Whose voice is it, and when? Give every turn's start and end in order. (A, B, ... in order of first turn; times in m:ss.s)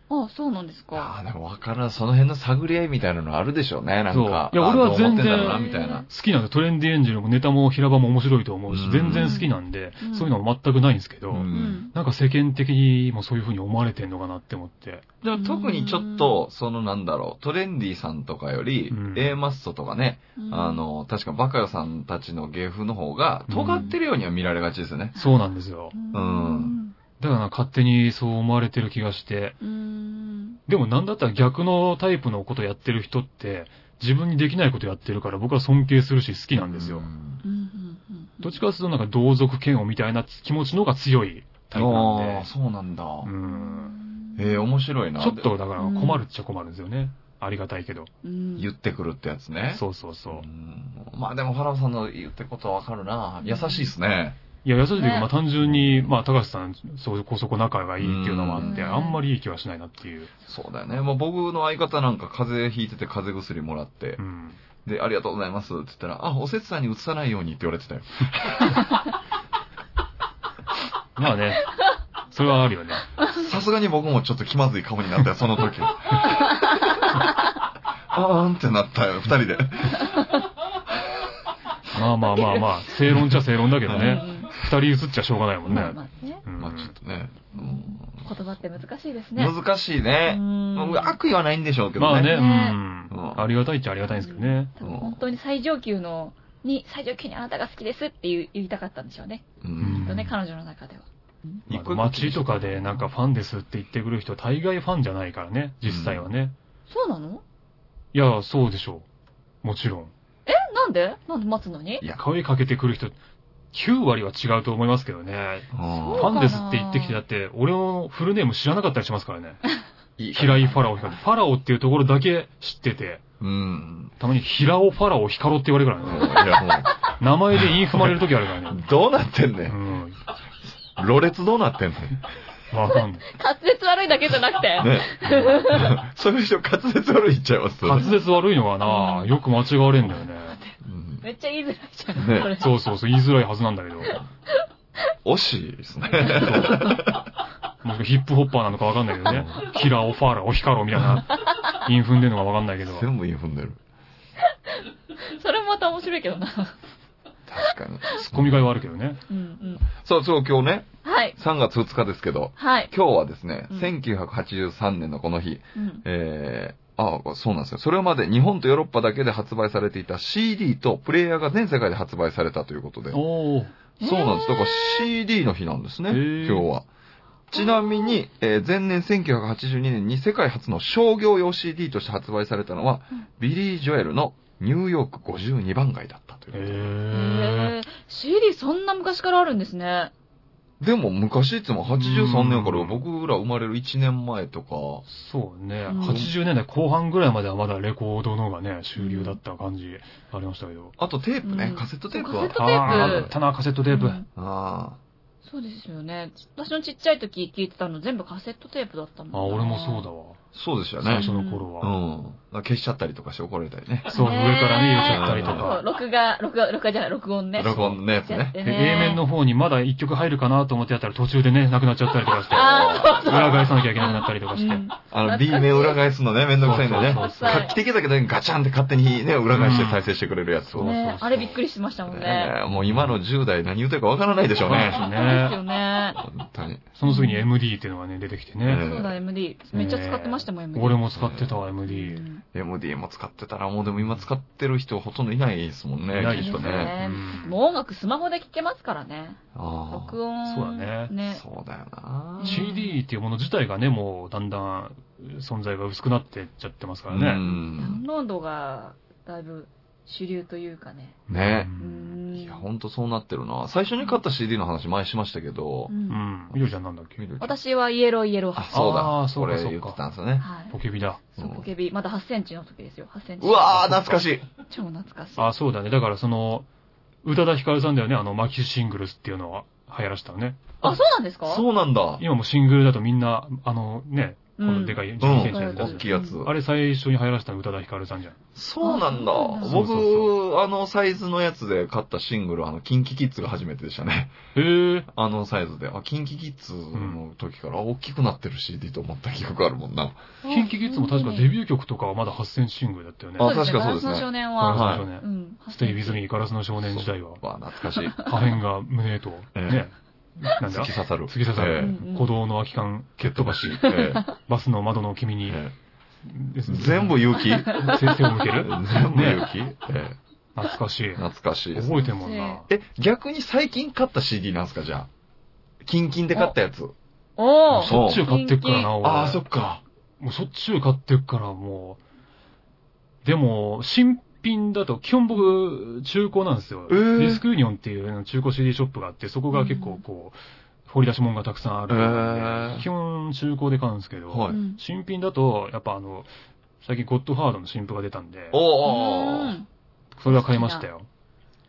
0:00.1-0:01.1 A
0:01.0-0:06.1 B
0:04.1-0:15.0 C
0:05.4-0:06.1 A
0:08.7-0:09.4 B
0:09.1-0:10.3 A
0:11.3-0:11.8 B
0:11.5-0:11.9 A
0:15.2-0:25.2 B
0:15.4-0:16.4 A
0:18.9-0:19.4 C
0:20.4-0:20.8 A
0:23.5-0:23.9 C
0:25.2-0:26.0 C
0:25.9-0:27.0 A
0:26.1-0:26.8 B
0:27.2-0:29.6 C
0:29.6-0:30.6 A
0:30.7-0:37.1 C
0:36.5-0:37.4 B
0:37.4-0:38.6 A
0:38.4-0:42.5 C
0:41.8-0:43.3 B
0:43.2-0:44.0 C
0:43.4-0:44.6 A
0:44.4-0:45.5 B
0:45.2-0:48.1 C
0:45.8-0:46.2 A
0:48.2-0:48.7 A
0:48.6-0:54.4 B
0:49.7-0:50.5 C
0:53.4-0:53.9 A
0:54.6-1:00.3 C
0:55.0-0:55.3 A
0:55.6-0:56.1 B
0:58.0-0:58.8 B
0:58.6-0:59.2 A
1:00.5-1:04.2 B
1:04.2-1:04.6 C
1:04.8-1:08.9 B
1:11.2-1:11.7 C
1:12.3-1:13.0 C
1:13.3-1:16.5 B
1:18.1-1:20.1 B
1:21.9-1:26.9 C
1:22.3-1:22.7 A
1:23.1-1:24.3 B
1:23.9-1:24.5 A
1:25.7-1:26.4 A
1:26.6-1:28.2 B
1:27.6-1:29.6 A
1:29.4-1:32.4 B
1:30.3-1:31.2 A
1:32.0-1:34.7 C
1:32.2-1:32.8 A
1:33.1-1:33.5 B
1:34.2-1:41.6 A
1:34.8-1:35.2 B
1:39.6-1:40.2 B
1:39.8-1:40.3 C
1:41.7-1:43.1 B
1:41.7-1:46.6 C
1:45.8-1:46.3 B
1:46.9-1:47.4 A
1:48.1-1:49.0 C
1:49.6-1:50.1 C
1:50.5-1:52.0 A
1:52.2-1:53.2 C
1:53.7-1:59.6 C
1:55.7-1:56.3 B
1:55.9-1:57.2 A
2:00.2-2:00.8 B
2:00.3-2:03.2 C
2:03.4-2:04.1 B
2:04.2-2:06.5 C
2:06.0-2:06.9 B
2:06.4-2:06.9 A
2:07.2-2:08.8 C
2:07.6-2:09.8 B
2:09.7-2:10.2 C
2:11.0-2:12.2 B
2:12.7-2:13.2 C
2:13.2-2:16.0 A
2:14.8-2:18.1 B
2:17.8-2:20.6 C
2:18.8-2:19.3 A
2:20.5-2:22.8 A
2:20.8-2:21.3 B
2:22.2-2:22.5 B
2:22.6-2:24.1 C
2:25.2-2:27.2 B
2:26.3-2:27.0 C
2:27.8-2:33.1 C
2:29.3-2:29.6 B
2:32.9-2:33.8 B
2:34.7-2:36.8 A
2:37.5-2:38.6 B
2:38.2-2:39.2 C
2:39.3-2:39.9 A
2:39.9-2:53.2 B
2:41.0-2:41.4 A
2:42.6-2:42.9 A
2:45.8-2:46.0 A
2:53.1-2:53.7 C
2:54.0-2:55.1 A
2:54.0-2:56.9 B
2:56.1-2:56.7 C
2:57.5-3:07.0 B
3:06.5-3:07.8 C
3:07.1-3:10.1 A
3:10.8-3:15.0 B
3:11.9-3:13.0 C
3:15.1-3:21.0 C
3:15.9-3:16.3 A
3:16.0-3:16.3 B
3:19.0-3:19.4 A
3:21.0-3:23.3 B
3:21.4-3:23.3 A
3:22.5-3:24.2 C
3:23.9-3:24.2 A
3:24.4-3:25.0 B
3:25.4-3:30.1 A
3:29.3-3:30.4 C
3:30.5-3:31.3 B
3:31.0-3:31.9 C
3:31.2-3:31.7 A
3:31.8-3:34.1 B
3:34.1-3:35.8 C
3:34.1-3:39.2 A
3:35.0-3:35.8 B
3:37.6-3:39.2 B
3:38.6-3:44.9 C
3:42.3-3:46.0 A
3:42.5-3:43.8 B
3:45.1-3:51.0 B
3:46.6-3:47.7 C
3:47.0-3:47.8 A
3:49.5-3:50.0 C
3:50.6-3:51.6 C
3:50.8-3:52.6 A
3:52.1-3:55.1 B
3:52.7-3:53.2 C
3:54.6-3:55.6 C
3:54.7-3:56.2 A
3:56.2-3:56.9 B
3:57.0-3:58.9 C
3:57.0-3:57.5 A
3:58.6-3:59.2 B
3:58.8-4:01.0 A
3:59.7-4:02.2 C
4:01.1-4:01.6 B
4:01.9-4:02.4 A
4:02.5-4:07.0 B
4:06.2-4:07.6 C
4:06.2-4:11.4 A
4:09.6-4:10.2 B
4:10.4-4:11.1 C
4:11.3-4:12.7 B
4:12.4-4:13.0 A
4:12.4-4:17.4 C
4:17.1-4:18.0 B
4:17.4-4:21.2 A
4:21.3-4:22.2 C
4:21.3-4:21.7 B
4:21.8-4:22.6 A
4:22.3-4:25.9 B
4:25.9-4:26.2 A
4:26.1-4:27.2 C
4:26.5-4:27.6 B
4:27.4-4:28.8 A
4:28.6-4:30.5 B
4:28.7-4:30.0 C
4:30.4-4:35.5 A
4:30.7-4:31.2 C
4:31.4-4:31.6 B
4:33.4-4:34.4 B
4:33.8-4:34.2 C
4:35.4-4:36.7 C
4:37.2-4:41.0 C
4:40.8-4:41.6 A
4:41.5-4:42.2 B
4:42.2-4:48.4 C
4:44.6-4:46.4 A
4:45.2-4:46.6 B
4:48.6-4:54.4 B
4:48.8-4:49.8 A
4:49.6-4:50.3 C
4:54.6-4:55.1 C
4:55.1-5:00.2 B
4:56.9-4:57.2 C
5:00.4-5:01.5 A
5:00.4-5:03.6 C
5:03.4-5:05.1 B
5:03.4-5:06.2 A
5:04.6-5:05.2 C
5:05.8-5:07.4 C
5:06.8-5:08.2 B
5:08.0-5:08.3 A
5:08.2-5:15.6 C
5:09.6-5:09.9 B
5:10.6-5:12.0 B
5:11.8-5:12.3 A
5:13.2-5:14.3 B
5:13.8-5:14.3 A
5:15.5-5:15.8 B
5:16.2-5:19.5 C
5:16.7-5:20.2 B
5:20.6-5:21.2 C
5:21.2-5:22.0 B
5:21.7-5:22.7 C
5:22.0-5:22.6 A
5:22.7-5:25.1 B
5:25.8-5:26.9 B
5:27.4-5:29.0 A
5:27.7-5:29.4 C
5:27.8-5:28.2 B
5:29.0-5:29.8 B
5:30.2-5:32.0 C
5:33.2-5:46.3 C
5:36.9-5:37.4 B
5:39.5-5:40.0 A
5:41.9-5:42.9 B
5:44.3-5:44.6 B
5:44.5-5:44.8 A
5:46.8-5:48.6 C
5:48.5-5:49.6 B
5:48.8-5:49.7 A
5:50.2-5:51.1 C
5:50.3-5:50.9 A